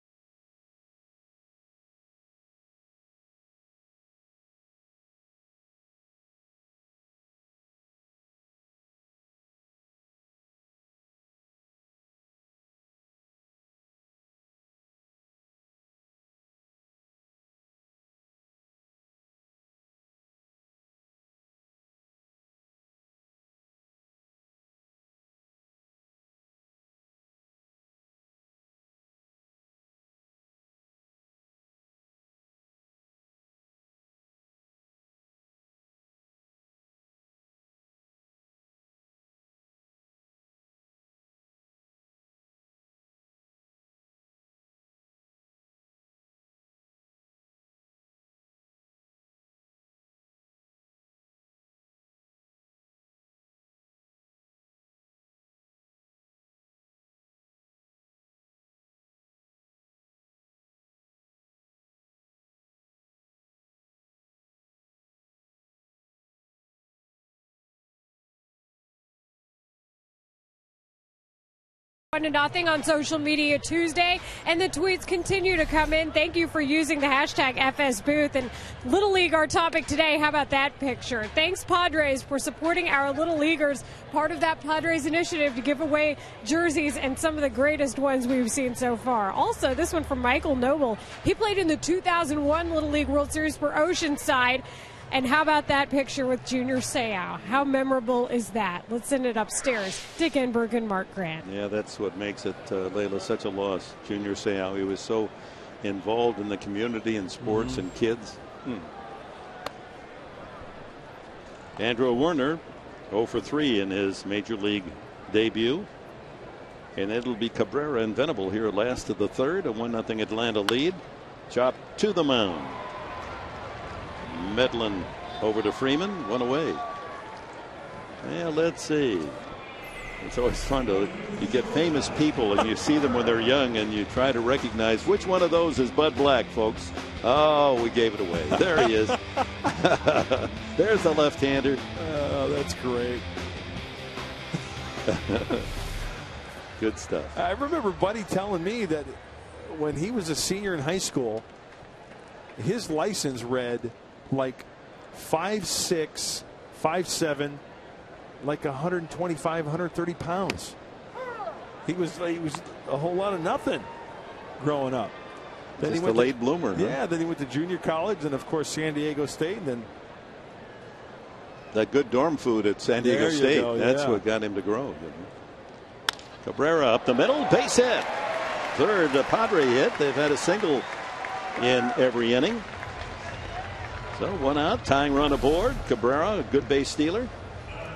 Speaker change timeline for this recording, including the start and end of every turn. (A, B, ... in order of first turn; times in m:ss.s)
1:12.1-1:41.4 A
1:41.4-1:45.3 B
1:45.8-1:48.9 B
1:51.8-1:55.9 B
1:57.0-2:02.8 B
2:04.2-2:06.8 B
2:08.2-2:09.4 B
2:10.2-2:21.8 B
2:18.7-2:19.1 C
2:22.0-2:23.2 C
2:25.0-2:25.7 B
2:26.8-2:27.3 B
2:27.3-2:31.4 C
2:32.6-2:37.6 C
2:38.4-2:40.8 C
2:41.8-2:43.9 C
2:44.6-2:45.1 C
2:45.8-2:47.0 B
2:45.8-2:49.9 C
2:51.7-2:55.3 B
2:53.0-2:54.2 C
2:56.4-2:58.1 B
2:58.7-3:00.9 B
3:01.6-3:02.6 B
3:04.1-3:07.3 B